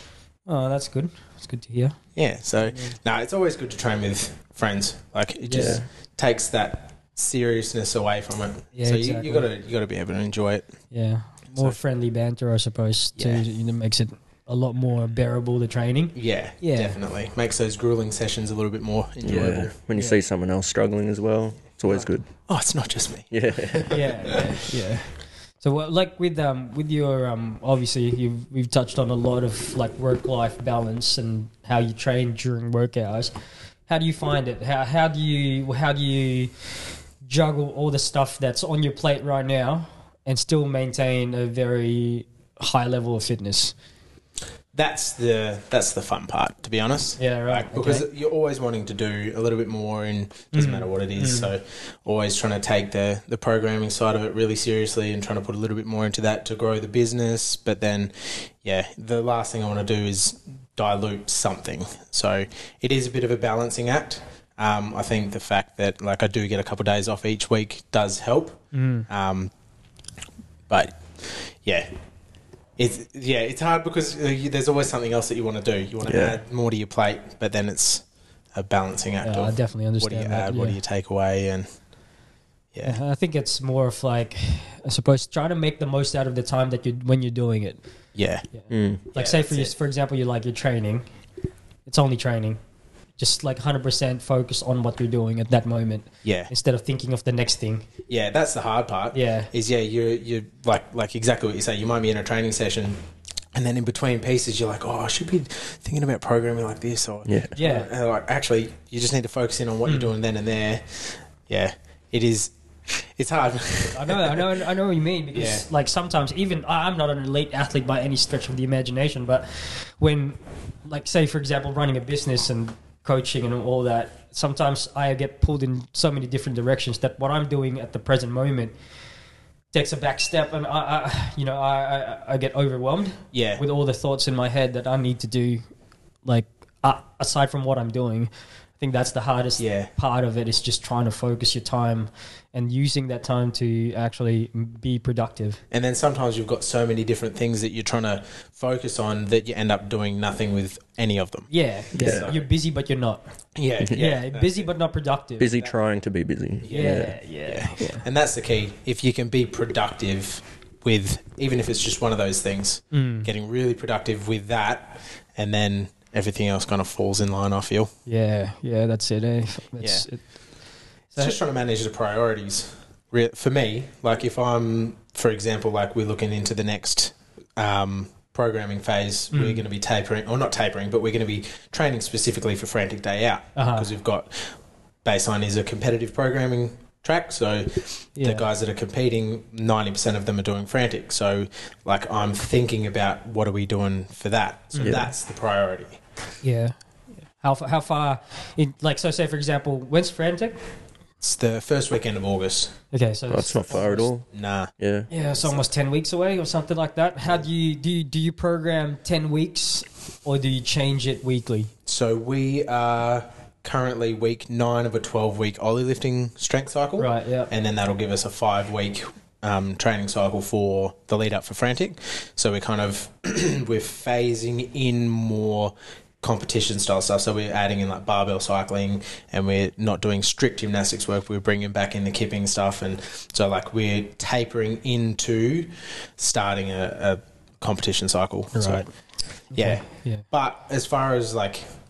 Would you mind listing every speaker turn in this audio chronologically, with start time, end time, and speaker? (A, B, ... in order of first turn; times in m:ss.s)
0:00.5-0:02.0 A
0:02.2-0:10.7 B
0:02.7-0:02.9 A
0:05.5-0:05.8 A
0:05.5-0:05.8 C
0:08.8-0:09.5 A
0:10.9-0:17.0 A
0:13.2-0:13.4 B
0:16.2-0:19.7 B
0:19.2-0:22.3 C
0:21.9-0:24.5 B
0:23.3-0:24.0 C
0:23.9-0:33.3 A
0:33.9-0:36.5 A
0:37.2-0:43.8 A
0:44.7-1:09.5 B
0:47.2-0:48.1 A
0:50.5-0:51.5 A
1:08.7-1:09.1 A
1:10.7-1:11.9 B
1:12.8-1:21.7 B
1:16.0-1:16.4 C
1:19.2-1:20.8 A
1:22.7-1:23.0 B
1:22.8-1:27.8 A
1:28.2-1:28.5 B
1:28.5-1:31.0 A
1:28.7-1:29.0 C
1:29.1-1:29.7 B
1:31.9-1:32.6 A
1:33.2-1:37.8 A
1:36.2-1:36.5 B
1:38.1-1:43.0 B
1:39.1-1:39.5 A
1:43.5-1:54.6 B
1:47.3-1:47.5 C
1:47.6-1:47.9 A
1:49.9-1:50.1 A
1:53.9-2:08.7 A
1:55.3-1:55.7 B
2:09.7-2:15.6 A
2:13.3-2:13.6 B
2:16.2-2:25.6 A
2:19.6-2:19.9 B
2:25.7-2:32.5 B
2:31.5-2:33.2 A
2:32.0-2:32.3 C
2:33.6-2:34.7 B
2:33.9-2:35.5 A
2:35.4-2:37.2 C
2:36.6-2:47.9 B
2:36.7-2:38.1 A
2:42.9-2:43.3 A
2:48.1-2:50.3 A
2:49.8-2:50.1 B
2:51.2-3:16.0 B
2:59.3-2:59.6 A
3:03.6-3:03.9 A
3:08.2-3:08.5 A
3:14.7-3:15.1 A
3:14.8-3:15.1 C
3:16.4-3:16.8 A
3:17.4-3:20.6 A
3:21.2-3:22.8 B
3:22.9-3:24.1 A
3:23.3-3:24.3 C
3:23.7-3:24.7 B
3:24.8-3:25.1 C
3:25.1-3:31.7 A
3:25.3-3:25.7 B
3:31.9-3:58.9 B
3:37.0-3:37.5 A
3:58.5-3:58.9 A
3:59.5-4:00.2 A
3:59.5-4:01.6 B